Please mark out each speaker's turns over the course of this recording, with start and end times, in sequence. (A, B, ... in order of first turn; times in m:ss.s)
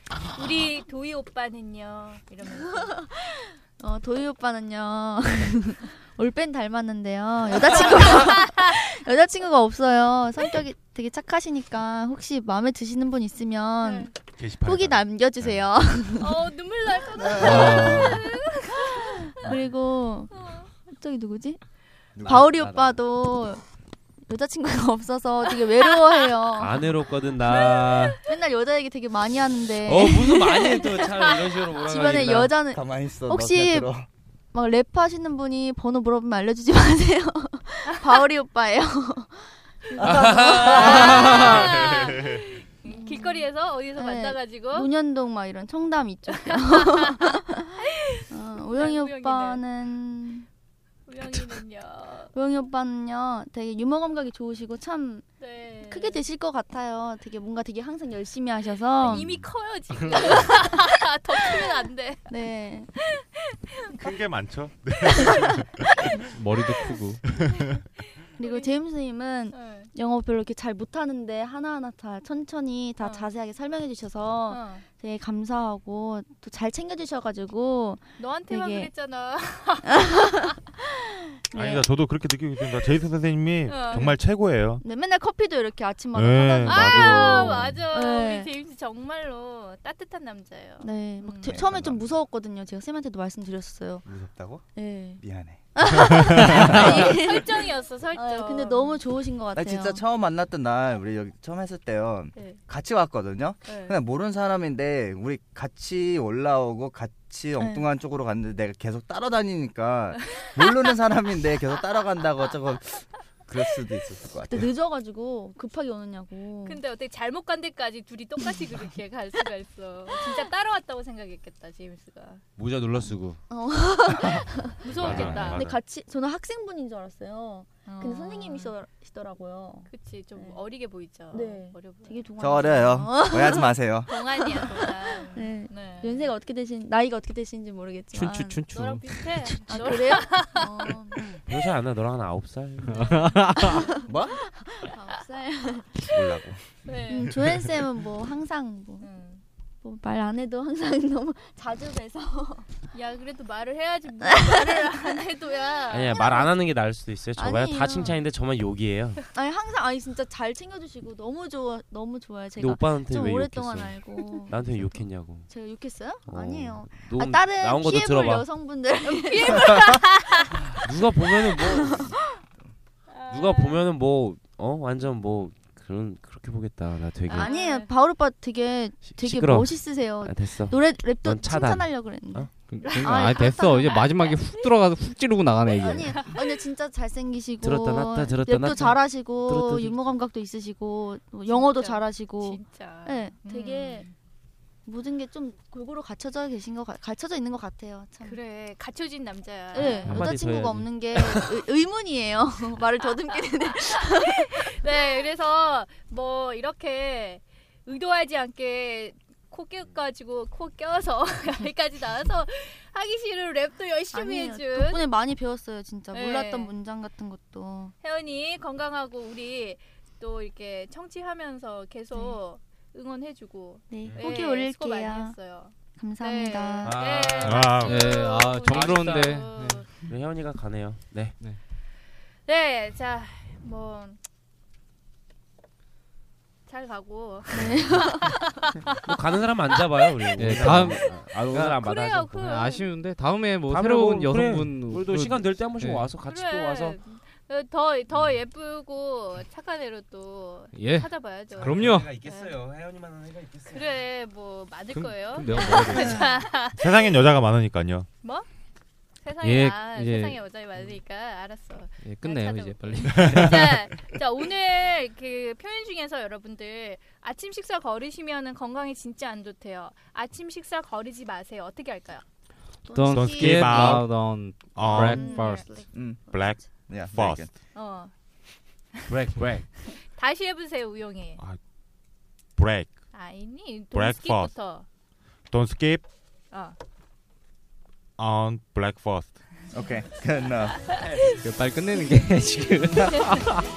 0:00.3-0:03.0 A
0:02.7-0:16.4 B
0:07.5-0:08.4 A
0:13.8-0:14.1 A
0:14.4-0:15.7 C
0:16.2-0:19.1 A
0:17.3-0:18.4 B
0:17.4-0:18.2 D
0:19.3-0:21.6 B
0:20.3-0:20.7 A
0:22.1-0:22.5 E
0:22.2-0:23.6 B
0:22.2-0:23.0 F
0:24.3-0:26.9 B
0:26.6-0:28.2 F
0:27.4-0:28.2 A
0:28.2-0:30.8 B
0:29.8-0:32.6 F
0:30.4-0:31.3 A
0:31.8-0:33.9 B
0:32.7-0:34.0 E
0:34.5-0:41.6 B
0:40.0-0:41.8 F
0:40.4-0:44.9 A
0:41.8-0:42.4 C
0:42.9-0:47.7 B
0:46.5-0:49.6 A
0:48.3-0:50.4 B
0:51.1-0:52.3 A
0:52.3-0:55.3 B
0:55.4-0:56.2 A
0:55.8-0:59.4 B
0:59.0-1:02.3 A
1:01.4-1:02.9 B
1:03.0-1:04.0 A
1:03.9-1:05.8 C
1:06.3-1:07.2 D
1:07.2-1:07.8 C
1:08.4-1:18.9 B
1:08.4-1:08.8 A
1:09.5-1:09.9 A
1:13.0-1:13.3 A
1:14.5-1:14.8 A
1:18.2-1:20.4 A
1:19.8-1:20.4 B
1:21.5-1:21.9 B
1:21.5-1:24.8 C
1:23.7-1:24.1 A
1:23.9-1:24.2 B
1:24.8-1:28.5 B
1:26.1-1:27.9 C
1:26.6-1:31.6 A
1:30.8-1:34.0 B
1:31.4-1:32.0 E
1:34.0-1:34.6 E
1:34.7-1:35.2 B
1:35.2-1:35.7 E
1:35.7-1:40.0 B
1:36.4-1:39.0 A
1:36.6-1:37.1 E
1:39.5-1:54.7 E
1:43.6-1:44.0 A
1:47.6-1:47.8 B
1:54.5-1:56.8 B
1:56.6-2:02.4 A
2:02.6-2:03.4 F
2:03.5-2:10.6 B
2:04.8-2:05.7 A
2:05.0-2:05.8 C
2:07.8-2:08.7 A
2:09.9-2:12.2 A
2:11.3-2:13.8 B
2:12.4-2:14.1 E
2:14.1-2:16.3 A
2:14.6-2:18.6 B
2:18.1-2:19.3 D
2:18.7-2:20.9 A
2:19.2-2:21.4 B
2:21.4-2:23.2 F
2:22.9-2:24.0 A
2:22.9-2:23.8 D
2:23.6-2:25.9 B
2:24.1-2:24.4 E
2:26.0-2:26.6 E
2:26.8-2:27.3 A
2:27.1-2:29.1 B
2:29.0-2:29.4 A
2:29.8-2:32.6 B
2:32.9-2:36.5 A
2:34.2-2:35.0 B
2:35.9-2:39.2 F
2:37.4-2:38.2 B
2:39.3-2:50.0 B
2:42.6-2:45.5 F
2:46.2-2:48.5 F
2:49.0-2:50.4 A
2:50.8-2:52.1 F
2:51.6-2:52.3 B
2:53.1-2:53.8 A
2:53.3-2:57.5 F
2:57.3-3:04.2 B
2:57.3-2:57.9 A
2:59.1-3:02.5 F
3:02.6-3:06.3 D
3:02.8-3:04.3 A
3:05.7-3:14.1 B
3:06.1-3:06.6 A
3:07.6-3:10.0 F
3:11.5-3:14.1 A
3:14.8-3:18.4 B
3:18.2-3:20.2 A
3:19.7-3:24.7 B
3:19.8-3:21.7 F
3:23.7-3:35.0 A
3:34.1-3:37.9 B
3:36.1-3:36.7 A
3:38.0-3:49.8 A
3:43.9-3:45.3 B
3:44.0-3:44.3 F
3:46.0-3:47.0 B
3:46.8-3:47.8 F
3:47.4-3:48.2 C
3:47.8-3:49.8 D
3:48.7-3:49.4 F
3:50.0-3:51.4 F
3:52.5-3:54.2 A
3:56.7-3:59.0 A
3:57.5-3:58.5 B
3:59.0-4:02.4 F
4:00.4-4:01.1 D
4:01.5-4:02.8 A
4:02.4-4:06.0 D
4:03.7-4:07.0 F
4:06.2-4:12.6 A
4:10.7-4:12.2 D
4:11.5-4:13.9 F
4:13.7-4:16.9 A
4:14.9-4:16.4 D
4:16.6-4:18.1 C
4:19.2-4:32.2 A
4:19.4-4:20.4 D
4:22.0-4:23.9 D
4:23.1-4:23.5 C
4:32.8-4:34.0 B
4:32.9-4:35.7 D
4:33.1-4:35.3 C
4:34.9-4:36.6 B
4:35.0-4:35.7 A
4:35.9-4:37.5 E
4:36.3-4:37.4 C
4:37.7-4:38.1 A
4:39.1-4:39.7 F
4:39.9-4:41.4 A
4:42.6-4:43.1 C
4:43.1-4:44.8 A
4:43.9-4:44.5 C
4:45.5-4:46.0 C
4:48.2-4:49.6 C
4:49.7-4:50.8 E
4:51.0-4:51.4 F
4:51.4-4:53.6 D
4:53.1-4:53.4 A